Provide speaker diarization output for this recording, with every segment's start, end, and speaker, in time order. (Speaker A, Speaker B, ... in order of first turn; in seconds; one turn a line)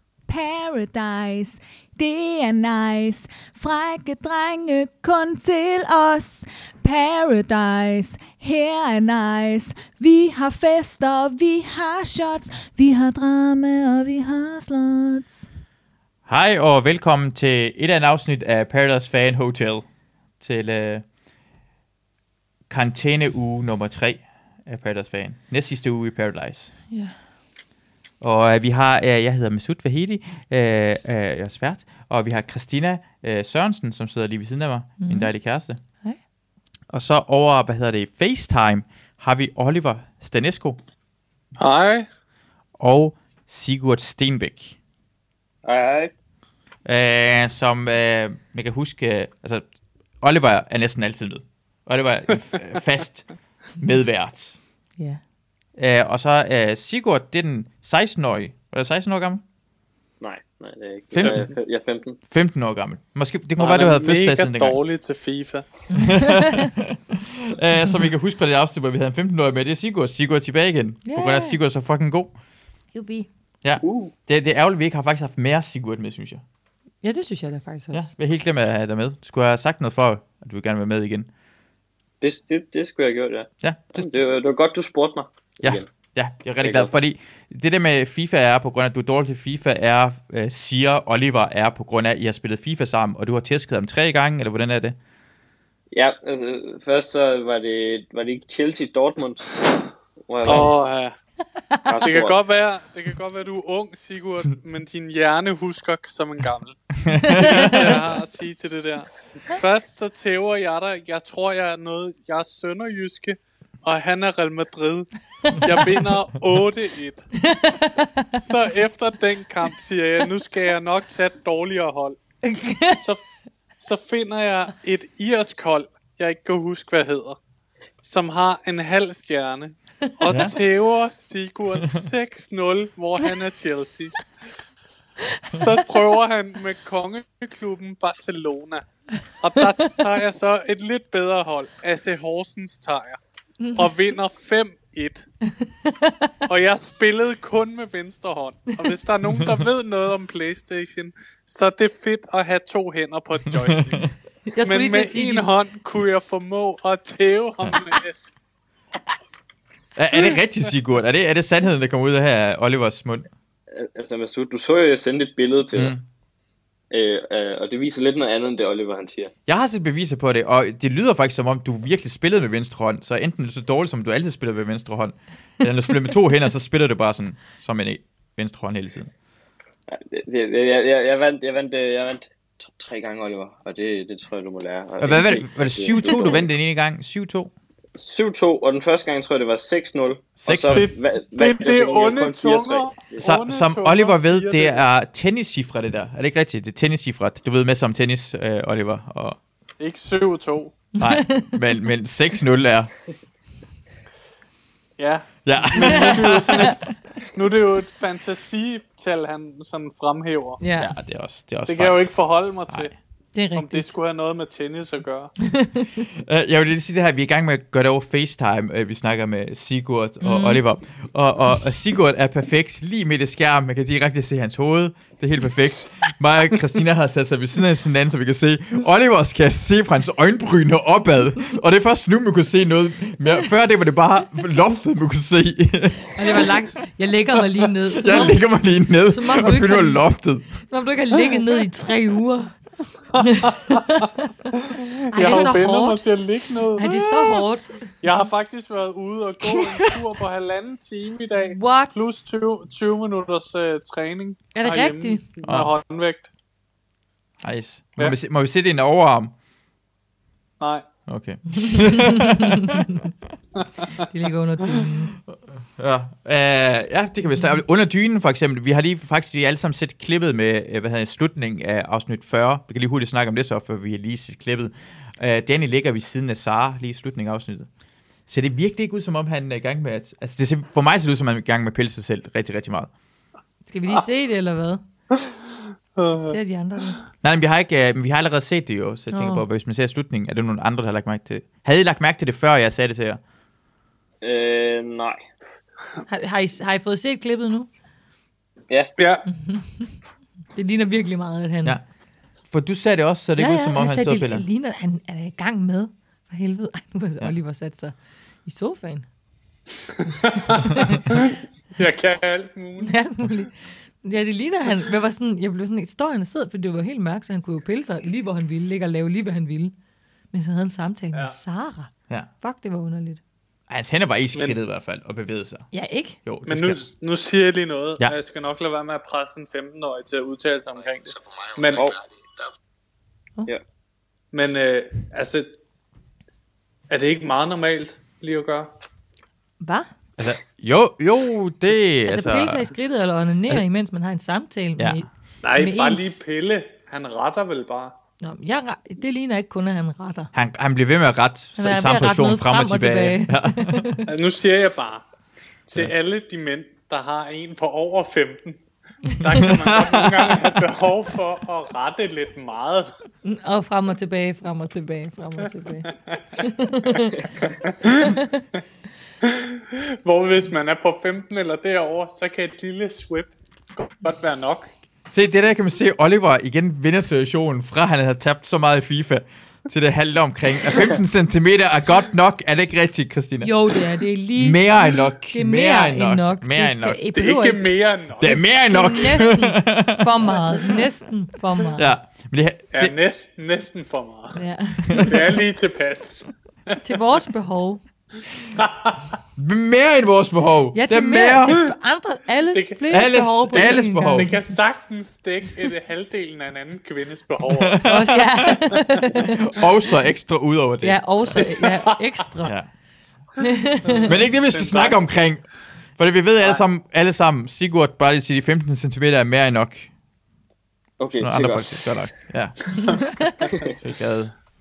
Speaker A: 0.3-15.5
Speaker B: 16.3-19.9
Speaker B: 20.4-21.0
Speaker B: 22.7-26.7
Speaker B: 28.2-35.8
Speaker C: 35.0-35.3
Speaker B: 36.9-40.8
Speaker D: 41.6-42.1
Speaker B: 42.8-44.8
Speaker E: 45.6-46.1
Speaker B: 46.9-49.6
Speaker B: 50.2-53.3
Speaker B: 53.8-54.6
Speaker B: 55.8-59.4
Speaker E: 60.2-62.2
Speaker B: 61.1-61.5
Speaker B: 62.3-64.8
Speaker D: 63.6-65.7
Speaker C: 65.9-66.7
Speaker B: 66.0-72.3
Speaker C: 71.0-71.6
Speaker C: 72.9-73.3
Speaker B: 73.6-76.4
Speaker E: 73.8-74.1
Speaker C: 77.0-78.1
Speaker B: 77.9-81.3
Speaker E: 82.2-85.9
Speaker B: 83.6-84.2
Speaker B: 85.6-95.0
Speaker E: 86.6-86.9
Speaker E: 95.9-99.6
Speaker E: 100.2-100.7
Speaker D: 100.4-101.1
Speaker E: 101.9-102.4
Speaker D: 102.0-115.1
Speaker B: 107.0-107.9
Speaker C: 107.3-107.9
Speaker C: 115.5-115.9
Speaker D: 115.6-117.3
Speaker C: 117.4-118.5
Speaker D: 118.4-122.2
Speaker C: 122.4-123.1
Speaker D: 122.9-123.2
Speaker D: 123.8-127.4
Speaker D: 128.0-134.2
Speaker B: 130.3-130.6
Speaker D: 135.5-138.8
Speaker D: 139.4-143.2
Speaker C: 143.6-143.9
Speaker D: 143.7-145.3
Speaker C: 145.6-146.4
Speaker D: 146.5-154.1
Speaker C: 154.5-155.5
Speaker D: 154.6-158.3
Speaker B: 160.0-163.3
Speaker E: 163.7-165.9
Speaker B: 165.8-166.0
Speaker E: 166.9-169.3
Speaker B: 169.5-179.1
Speaker E: 179.9-186.5
Speaker B: 185.0-187.5
Speaker E: 188.0-193.2
Speaker B: 190.4-190.9
Speaker D: 190.7-194.8
Speaker B: 193.2-199.4
Speaker D: 199.8-200.8
Speaker C: 201.0-201.6
Speaker B: 201.0-202.9
Speaker D: 205.0-210.6
Speaker B: 205.4-206.8
Speaker C: 205.8-206.7
Speaker C: 210.6-210.9
Speaker B: 210.8-212.1
Speaker D: 211.7-212.9
Speaker B: 212.7-212.9
Speaker C: 213.3-213.9
Speaker D: 213.5-215.3
Speaker C: 215.5-216.0
Speaker B: 216.2-236.5
Speaker C: 220.2-220.6
Speaker C: 236.2-238.4
Speaker B: 237.9-240.5
Speaker C: 239.1-240.0
Speaker C: 240.6-242.6
Speaker D: 243.1-243.9
Speaker C: 243.2-246.0
Speaker D: 244.7-246.9
Speaker C: 246.8-247.9
Speaker B: 246.8-247.4
Speaker D: 248.0-256.3
Speaker B: 249.5-249.9
Speaker C: 251.4-252.0
Speaker C: 254.6-255.2
Speaker B: 255.4-255.7
Speaker B: 257.4-259.3
Speaker D: 260.6-260.9
Speaker B: 261.1-262.8
Speaker C: 261.6-263.1
Speaker D: 263.6-264.1
Speaker C: 264.0-265.2
Speaker B: 265.8-277.7
Speaker B: 278.3-282.9
Speaker C: 283.7-284.8
Speaker D: 286.0-286.4
Speaker C: 286.2-287.0
Speaker B: 287.2-293.2
Speaker C: 289.1-289.4
Speaker E: 294.2-295.2
Speaker C: 296.1-297.7
Speaker D: 299.0-299.2
Speaker C: 299.3-299.9
Speaker C: 300.6-301.8
Speaker B: 302.5-304.4
Speaker C: 303.4-309.1
Speaker D: 309.9-313.0
Speaker C: 310.5-311.2
Speaker C: 312.8-319.8
Speaker C: 320.3-323.2
Speaker B: 323.7-325.7
Speaker C: 325.7-326.2
Speaker B: 326.2-326.9
Speaker D: 326.5-331.9
Speaker E: 331.7-332.0
Speaker D: 334.3-335.5
Speaker D: 336.9-338.7
Speaker C: 339.6-339.9
Speaker B: 340.2-342.7
Speaker C: 342.1-346.2
Speaker B: 344.8-345.0
Speaker D: 345.4-348.0
Speaker C: 348.2-350.3
Speaker B: 350.3-353.9
Speaker C: 351.6-354.1
Speaker D: 354.1-355.1
Speaker D: 355.7-358.6
Speaker B: 359.1-360.6
Speaker D: 359.1-362.9
Speaker C: 363.2-368.4
Speaker D: 367.6-368.2
Speaker D: 369.2-374.7
Speaker B: 375.1-383.5
Speaker C: 383.4-384.6
Speaker B: 384.4-387.0
Speaker C: 385.3-387.7
Speaker D: 387.1-388.4
Speaker B: 388.2-390.1
Speaker C: 388.7-391.9
Speaker B: 391.8-392.9
Speaker D: 392.7-394.4
Speaker C: 394.3-395.4
Speaker D: 395.0-396.8
Speaker C: 396.8-397.8
Speaker D: 398.5-399.0
Speaker B: 399.4-401.7
Speaker C: 400.7-404.4
Speaker D: 402.5-408.6
Speaker B: 402.9-404.3
Speaker B: 407.4-411.4
Speaker C: 407.8-409.6
Speaker C: 410.8-412.6
Speaker D: 411.4-412.0
Speaker C: 413.4-414.1
Speaker D: 413.9-415.0
Speaker B: 414.1-415.5
Speaker B: 416.0-419.9
Speaker E: 421.0-421.9
Speaker B: 421.2-423.0
Speaker C: 422.8-423.5
Speaker B: 423.7-424.3